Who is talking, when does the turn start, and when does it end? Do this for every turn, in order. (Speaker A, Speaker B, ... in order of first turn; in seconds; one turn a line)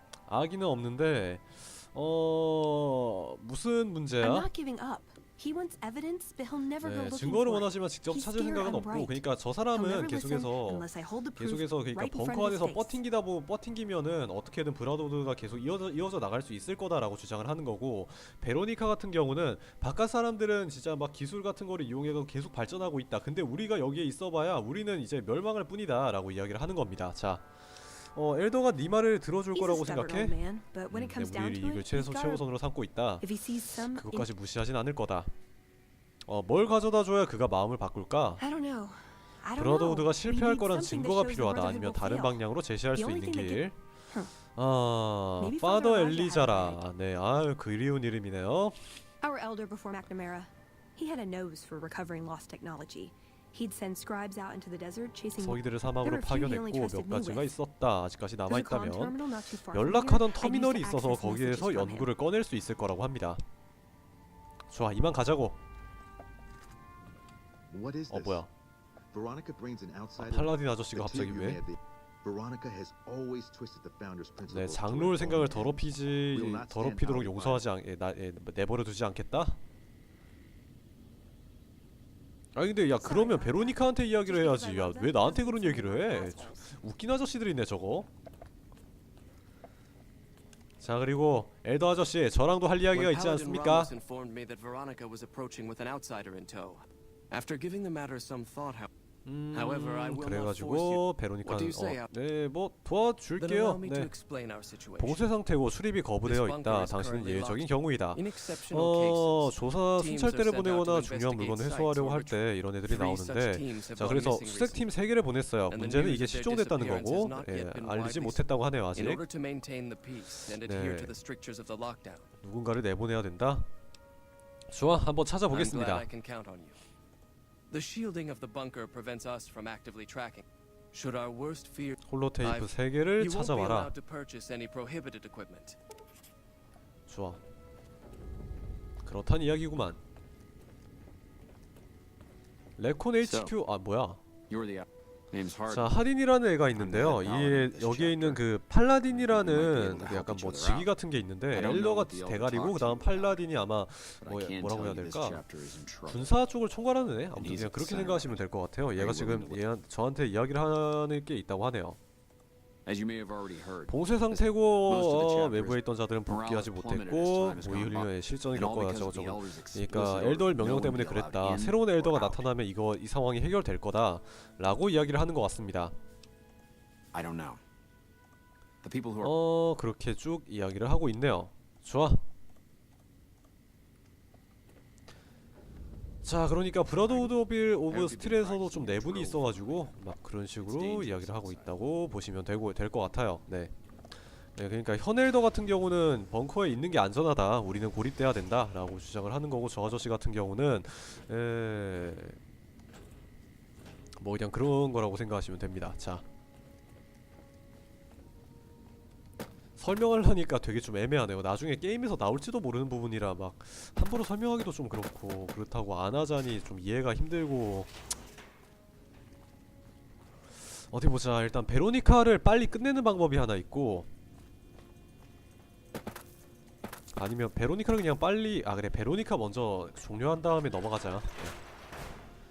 Speaker A: 0.3-4.5
Speaker B: 4.2-13.0
Speaker A: 6.8-30.4
Speaker B: 29.5-32.4
Speaker A: 30.9-33.2
Speaker B: 33.2-34.3
Speaker A: 33.9-35.3
Speaker A: 36.2-38.4
Speaker B: 38.4-44.3
Speaker A: 39.5-43.8
Speaker A: 44.5-49.0
Speaker B: 45.4-46.8
Speaker B: 49.2-57.5
Speaker A: 55.4-59.1
Speaker B: 58.5-62.1
Speaker A: 59.7-63.4
Speaker A: 64.7-65.6
Speaker C: 67.7-68.5
Speaker A: 68.1-68.5
Speaker C: 69.1-77.6
Speaker A: 70.2-71.6
Speaker A: 74.5-79.6
Speaker A: 82.5-88.1
Speaker B: 83.0-86.7
Speaker A: 90.8-93.9
Speaker D: 92.9-98.9
Speaker A: 99.2-104.1
Speaker D: 99.5-102.1
Speaker D: 103.4-105.2
Speaker A: 105.0-119.2
Speaker D: 106.2-114.9
Speaker D: 115.7-122.3
Speaker A: 120.5-121.1
Speaker A: 122.4-123.7
Speaker A: 124.7-126.1
Speaker D: 125.5-126.8
Speaker D: 127.7-135.8
Speaker A: 132.0-133.9
Speaker A: 137.1-137.4
Speaker A: 139.0-140.0
Speaker A: 142.8-144.2
Speaker E: 143.2-143.5
Speaker E: 144.5-146.0
Speaker A: 145.7-155.4
Speaker E: 146.7-148.4
Speaker E: 149.1-150.9
Speaker E: 151.5-153.5
Speaker E: 154.2-156.4
Speaker A: 156.1-162.0
Speaker E: 157.3-159.7
Speaker E: 162.8-172.5
Speaker A: 163.9-175.9
Speaker E: 177.1-177.6
Speaker E: 178.8-179.3
Speaker A: 179.2-182.2
Speaker A: 186.2-193.7
Speaker E: 187.0-187.4
Speaker E: 187.9-189.9
Speaker E: 190.6-191.8
Speaker A: 194.5-202.4
Speaker A: 204.2-206.2
Speaker A: 209.8-217.9
Speaker A: 220.9-224.1
Speaker A: 227.1-231.6